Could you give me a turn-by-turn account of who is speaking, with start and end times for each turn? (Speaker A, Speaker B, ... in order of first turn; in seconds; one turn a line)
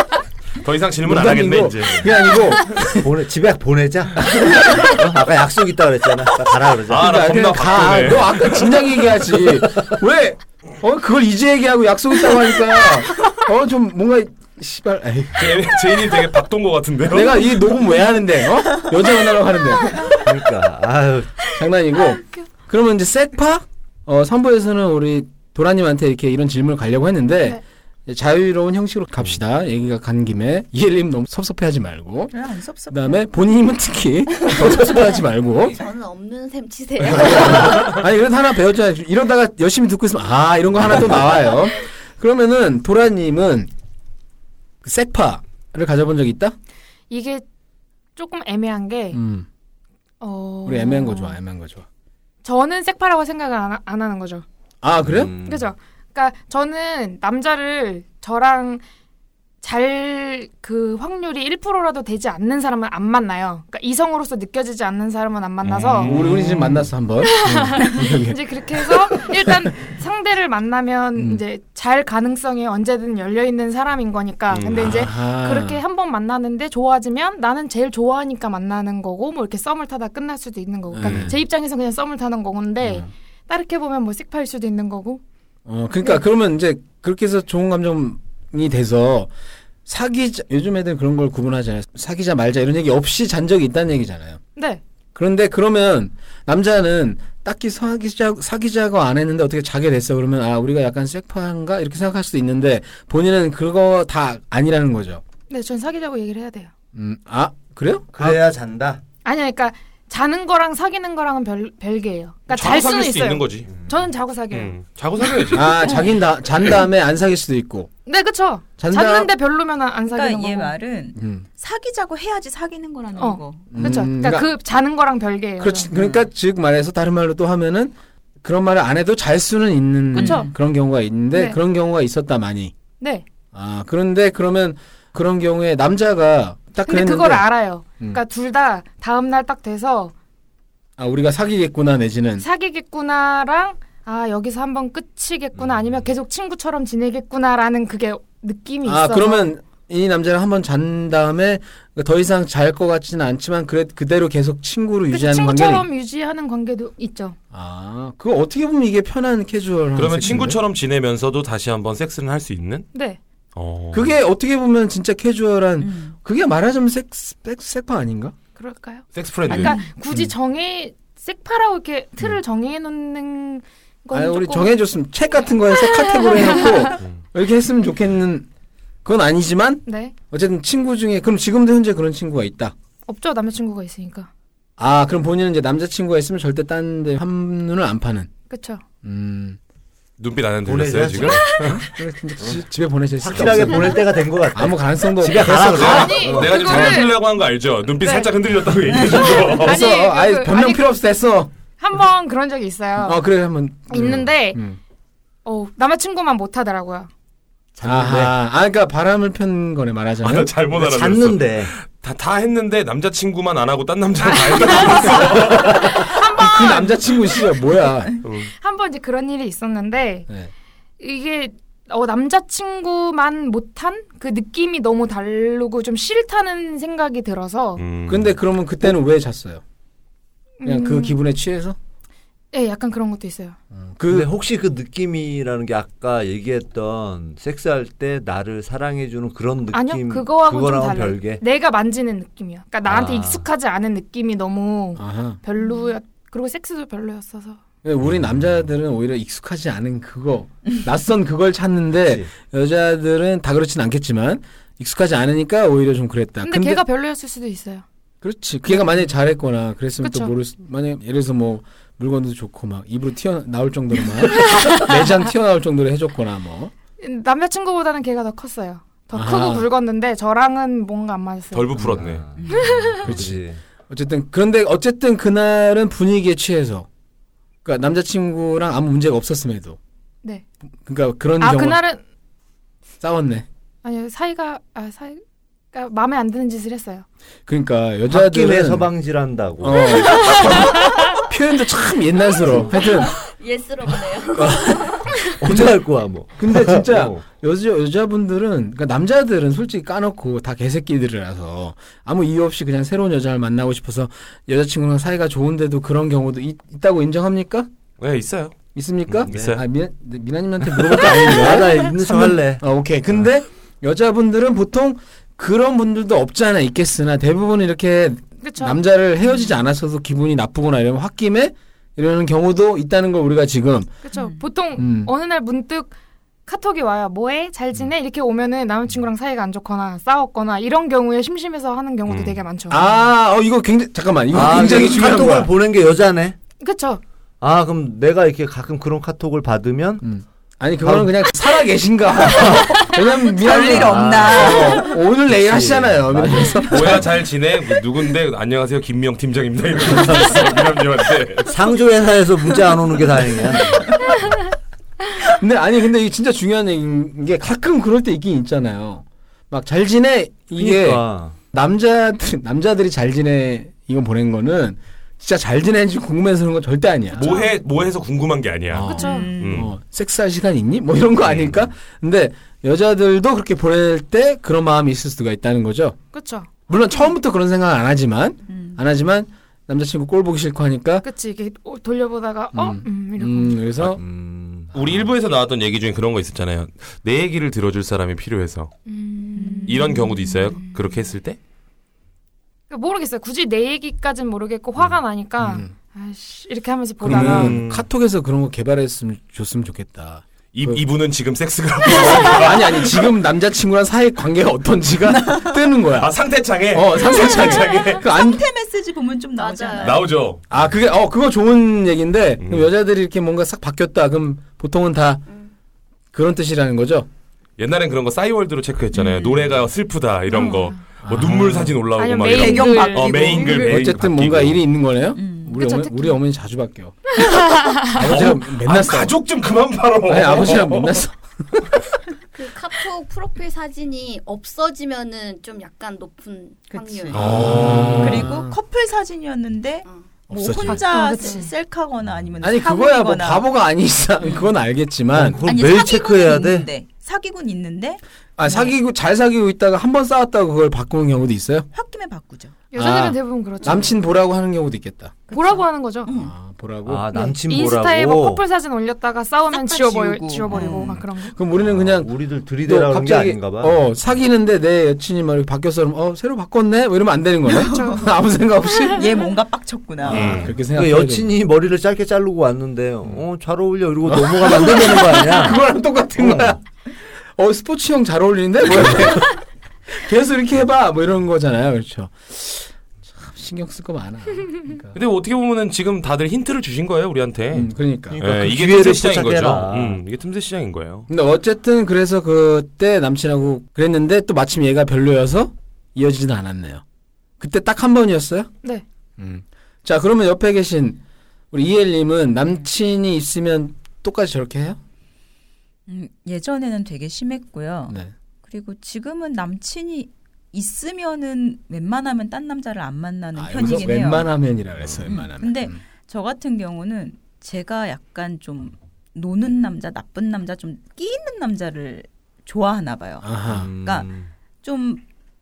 Speaker A: 0.6-2.1
Speaker B: 1.0-3.1
Speaker C: 3.0-7.1
Speaker B: 4.4-4.9
Speaker A: 6.9-8.8
Speaker B: 6.9-16.2
Speaker A: 15.4-17.5
Speaker B: 17.1-20.2
Speaker C: 20.2-21.3
Speaker B: 21.5-32.3
Speaker D: 32.3-33.2
Speaker B: 32.9-35.8
Speaker E: 35.7-38.0
Speaker B: 37.1-43.7
Speaker B: 44.8-46.5
Speaker F: 47.1-47.4
Speaker F: 48.1-49.2
Speaker B: 49.1-49.5
Speaker F: 50.2-51.4
Speaker B: 50.6-51.9
Speaker F: 52.4-54.4
Speaker B: 54.8-55.3
Speaker C: 55.0-55.7
Speaker F: 55.4-58.8
Speaker F: 59.6-66.2
Speaker B: 65.6-69.7
Speaker A: 65.9-66.8
Speaker F: 67.2-85.2
Speaker B: 71.2-71.4
Speaker A: 74.5-75.0
Speaker B: 74.8-75.8
Speaker B: 80.9-81.4
Speaker A: 81.0-81.3
Speaker B: 82.8-83.1
Speaker B: 85.7-89.3
Speaker B: 89.9-94.4
Speaker F: 94.5-94.8
Speaker B: 95.1-105.2
Speaker F: 105.5-106.7
Speaker B: 106.9-108.4
Speaker C: 108.1-109.0
Speaker F: 109.2-114.8
Speaker A: 112.5-113.7
Speaker C: 113.7-114.0
Speaker A: 114.5-115.9
Speaker B: 115.5-117.9
Speaker F: 118.0-120.7
Speaker B: 118.8-119.3
Speaker D: 120.1-123.9
Speaker B: 121.2-121.4
Speaker F: 123.2-126.0
Speaker B: 123.7-124.5
Speaker B: 125.6-132.7
Speaker D: 126.0-126.2
Speaker F: 130.1-130.5
Speaker D: 130.1-130.5
Speaker F: 131.3-131.6
Speaker F: 133.0-133.2
Speaker B: 133.5-137.4
Speaker F: 136.8-140.1
Speaker B: 141.0-142.4
Speaker F: 142.4-149.5
Speaker B: 148.8-155.9
Speaker F: 155.1-157.4
Speaker B: 157.5-160.6
Speaker A: 159.9-162.9
Speaker F: 162.9-163.2
Speaker A: 163.5-164.1
Speaker B: 163.9-168.4
Speaker D: 165.8-166.1
Speaker F: 168.6-174.7
Speaker A: 169.1-169.8
Speaker B: 174.1-178.5
Speaker F: 175.8-177.0
Speaker B: 179.0-182.7
Speaker F: 179.9-180.1
Speaker F: 183.1-184.3
Speaker B: 184.8-188.3
Speaker F: 188.5-188.8
Speaker B: 189.0-189.6
Speaker A: 190.2-191.8
Speaker C: 190.6-191.6
Speaker B: 191.7-197.1
Speaker C: 193.2-196.6
Speaker A: 195.2-199.8
Speaker F: 195.8-197.2
Speaker F: 198.0-198.3
Speaker F: 199.1-200.8
Speaker B: 199.5-201.5
Speaker F: 201.8-203.2
Speaker B: 203.0-204.8
Speaker F: 203.9-204.6
Speaker F: 205.4-207.1
Speaker C: 207.8-208.3
Speaker B: 207.8-210.5
Speaker A: 210.2-216.1
Speaker C: 210.7-211.7
Speaker F: 214.2-217.5
Speaker B: 216.4-218.2
Speaker A: 218.2-218.5
Speaker F: 218.5-220.3
Speaker F: 221.0-227.8
Speaker A: 227.8-228.3
Speaker B: 228.1-229.6
Speaker F: 230.6-231.2
Speaker B: 230.6-231.8
Speaker F: 232.5-233.6
Speaker B: 233.7-234.3
Speaker C: 234.1-241.4
Speaker F: 239.7-247.6
Speaker C: 242.9-243.4
Speaker B: 244.9-245.4
Speaker B: 247.8-256.8
Speaker C: 252.0-252.3
Speaker F: 256.4-257.9
Speaker B: 258.2-266.7
Speaker F: 258.7-259.0
Speaker F: 260.0-260.3
Speaker F: 267.0-271.7
Speaker B: 269.1-269.7
Speaker A: 271.5-272.3
Speaker C: 271.9-273.6
Speaker D: 272.4-272.9
Speaker F: 272.5-273.2
Speaker B: 273.0-276.9
Speaker B: 277.6-279.8
Speaker B: 280.9-281.8
Speaker F: 281.4-282.0
Speaker B: 283.0-283.4
Speaker F: 283.8-287.1
Speaker B: 287.5-288.9
Speaker C: 288.1-290.3
Speaker B: 289.6-293.2
Speaker F: 290.2-290.9
Speaker C: 292.4-292.7
Speaker E: 292.6-295.3
Speaker B: 294.3-307.7
Speaker C: 295.4-297.2
Speaker A: 308.0-308.6
Speaker B: 308.7-324.0
Speaker A: 309.1-309.6
Speaker C: 309.3-309.6
Speaker C: 310.8-312.6
Speaker F: 318.4-318.8
Speaker F: 324.0-325.9
Speaker D: 324.1-324.4
Speaker B: 324.8-325.1
Speaker F: 326.4-332.9
Speaker A: 332.1-332.4
Speaker B: 332.7-335.5
Speaker C: 334.3-336.4
Speaker F: 336.6-337.0
Speaker C: 337.4-340.0
Speaker B: 340.0-347.1
Speaker C: 340.8-341.1
Speaker C: 342.3-342.8
Speaker D: 342.5-344.9
Speaker C: 343.5-347.1
Speaker A: 346.7-351.6
Speaker C: 351.5-353.9
Speaker B: 355.2-367.4
Speaker C: 360.5-361.4
Speaker A: 367.1-369.7
Speaker F: 367.2-367.5
Speaker B: 368.7-376.0
Speaker F: 368.9-369.3
Speaker D: 369.0-369.7
Speaker F: 376.1-376.5
Speaker B: 376.7-381.1
Speaker D: 378.5-378.8
Speaker F: 381.0-383.7
Speaker B: 382.5-384.0
Speaker C: 383.8-384.7
Speaker B: 384.7-385.1
Speaker A: 384.7-388.7
Speaker F: 388.9-390.1
Speaker D: 389.4-390.8
Speaker A: 389.6-391.4
Speaker F: 392.7-397.6
Speaker B: 395.4-395.7
Speaker B: 397.0-400.8
Speaker A: 397.0-397.9
Speaker A: 400.5-403.0
Speaker B: 401.9-406.1
Speaker D: 405.1-405.5
Speaker A: 405.9-408.0
Speaker B: 406.7-408.4
Speaker D: 406.9-410.1
Speaker E: 409.4-410.0
Speaker A: 409.8-410.4
Speaker B: 410.5-415.2
Speaker A: 412.4-412.7
Speaker B: 416.1-417.1
Speaker A: 417.6-424.6
Speaker D: 418.9-419.6
Speaker F: 420.3-420.8
Speaker D: 420.3-420.7
Speaker B: 421.0-421.8
Speaker F: 421.9-423.7
Speaker D: 422.3-423.8
Speaker B: 423.5-427.2
Speaker D: 425.1-425.7
Speaker F: 425.6-426.2
Speaker F: 427.2-427.9
Speaker B: 427.8-429.2
Speaker A: 427.9-431.0
Speaker B: 430.1-431.8
Speaker E: 432.3-437.4
Speaker D: 436.7-443.5
Speaker B: 437.1-438.6
Speaker A: 437.1-438.3
Speaker B: 440.3-440.9
Speaker F: 440.6-441.5
Speaker B: 442.4-445.4
Speaker D: 444.2-444.5
Speaker C: 445.1-446.7
Speaker D: 445.4-448.7
Speaker B: 448.4-451.7
Speaker D: 451.7-452.5
Speaker F: 452.7-453.9
Speaker B: 452.8-455.3
Speaker D: 455.3-456.3
Speaker F: 455.3-456.1
Speaker B: 456.1-457.1
Speaker C: 456.9-458.4
Speaker F: 457.1-461.4
Speaker D: 459.5-461.0
Speaker B: 460.6-462.1
Speaker C: 461.5-463.8
Speaker B: 462.6-469.0
Speaker D: 467.5-468.1
Speaker F: 467.6-468.1
Speaker D: 468.9-470.5
Speaker C: 470.0-475.6
Speaker B: 470.1-471.3
Speaker A: 470.1-470.5
Speaker B: 474.0-476.6
Speaker C: 476.2-476.6
Speaker B: 477.4-485.0
Speaker A: 484.9-491.1
Speaker B: 487.5-488.2
Speaker C: 488.1-490.0
Speaker B: 491.1-496.8
Speaker B: 497.4-498.5
Speaker B: 499.2-501.0
Speaker B: 501.5-504.8
Speaker D: 505.9-514.3
Speaker B: 513.4-515.8
Speaker D: 515.0-523.3
Speaker B: 523.2-523.7
Speaker C: 523.5-524.3
Speaker D: 523.8-524.1
Speaker D: 524.6-525.0